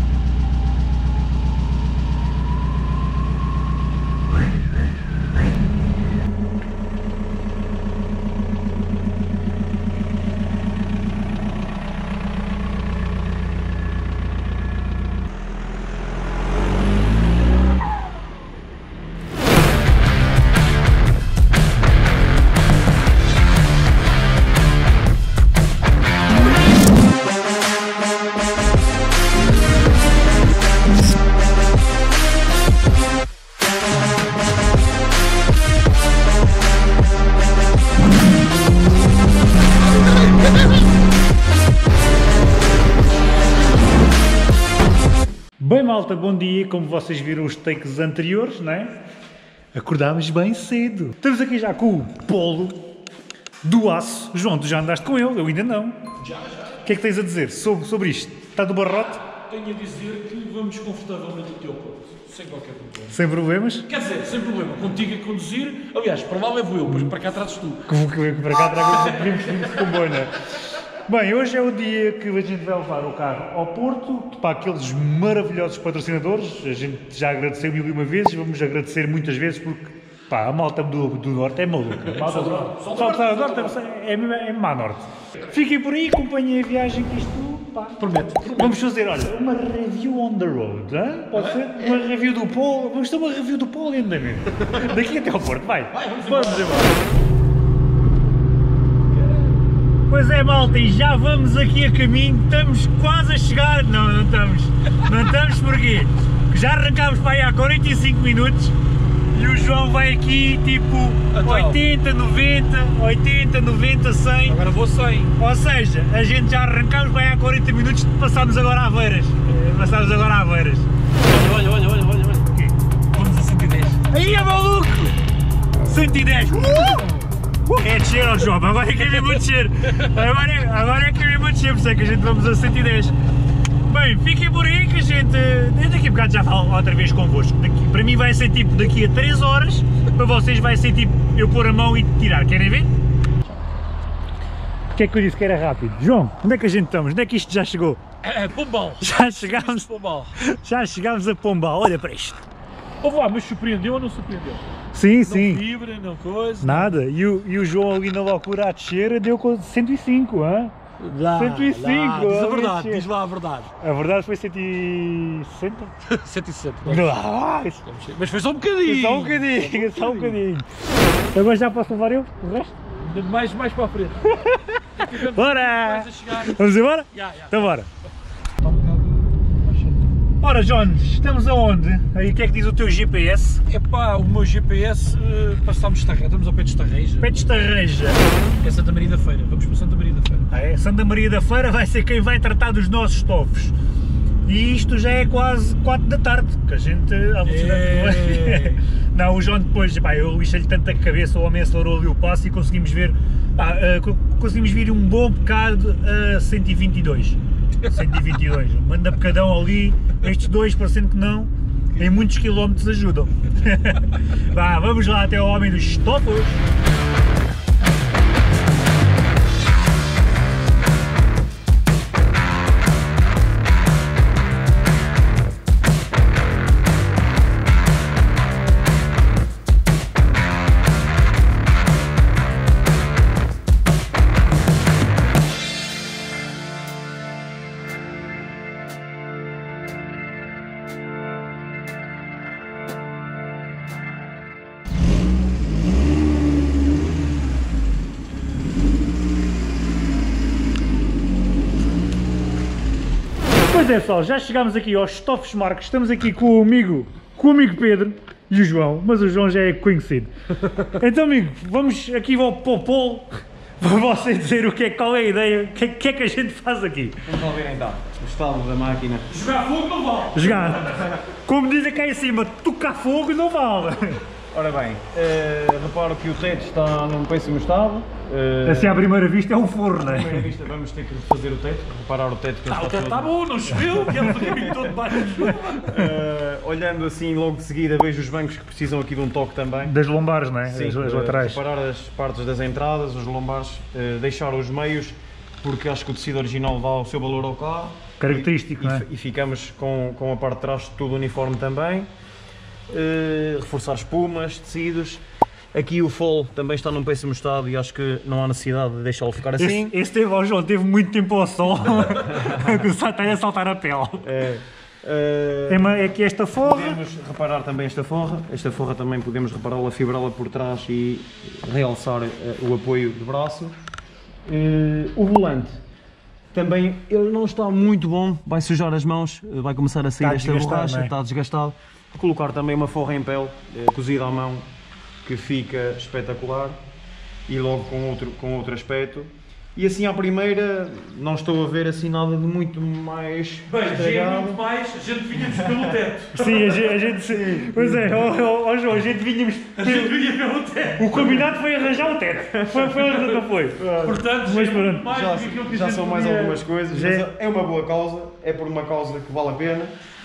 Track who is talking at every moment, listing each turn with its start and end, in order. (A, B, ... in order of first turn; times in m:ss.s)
0:45.6-0:49.0 A
0:49.7-0:52.8 A
0:53.6-0:56.0 A
0:56.2-0:56.8 B
0:56.8-0:59.2 A
0:59.3-1:03.2 B
1:03.1-1:03.8 A
1:03.9-1:07.8 B
1:07.9-1:10.3 A
1:08.6-1:10.0 B
1:11.0-1:28.0 A
1:22.1-1:23.8 B
1:28.0-1:28.8 B
1:28.6-1:36.9 A
1:31.3-1:31.7 B
1:35.9-1:36.9 B
1:40.1-1:48.7 A
1:49.3-1:54.6 A
1:51.3-1:51.8 B
1:54.4-1:55.3 B
1:55.4-2:00.9 A
2:01.2-2:02.4 B
2:03.1-2:04.0 B
2:04.1-2:05.2 A
2:05.8-2:07.1 A
2:07.7-2:13.1 A
2:13.9-2:22.9 A
2:24.9-2:28.0 A
2:28.2-2:30.4 B
2:29.0-2:29.8 A
2:30.4-2:32.4 A
2:33.0-2:34.6 B
2:34.9-2:35.6 A
2:35.2-2:36.9 B
2:36.6-2:40.7 A
2:41.0-2:43.7 B
2:41.3-2:43.0 A
2:43.8-2:45.9 A
2:46.0-2:47.2 B
2:46.9-2:47.8 A
2:47.8-2:50.4 B
2:48.8-2:50.7 A
2:51.3-2:52.7 A
2:53.0-2:56.6 B
2:54.3-2:57.9 A
2:57.1-2:57.5 B
2:58.6-3:00.0 B
3:00.4-3:03.6 A
3:03.7-3:07.4 B
3:07.2-3:08.2 A
3:08.6-3:10.5 B
3:10.5-3:13.7 A
3:14.4-3:36.6 A
3:17.4-3:18.8 B
4:13.7-4:20.3 A
4:20.8-4:27.2 A
4:27.3-4:29.2 C
4:29.3-4:30.6 B
4:30.3-4:34.2 A
4:34.5-4:39.0 C
4:38.6-4:40.5 A
4:40.0-4:49.9 C
4:42.6-4:45.9 B
4:49.8-4:51.6 A
4:50.6-5:02.1 C
4:58.2-4:59.0 A
5:02.9-5:05.2 C
5:05.7-5:09.9 C
5:09.6-5:14.2 A
5:14.2-5:23.8 C
5:15.7-5:17.0 A
5:24.4-5:25.8 C
5:26.5-5:34.7 C
5:30.2-5:31.1 A
5:35.2-5:36.8 C
5:37.5-5:44.6 C
5:43.6-5:46.7 B
5:45.3-5:46.0 C
5:46.3-5:50.1 A
5:46.9-5:48.2 C
5:49.8-5:51.5 B
5:51.0-5:55.1 A
5:52.6-5:53.0 C
5:53.8-5:54.2 C
5:54.0-5:56.6 B
5:55.1-5:59.9 C
5:56.9-5:57.3 A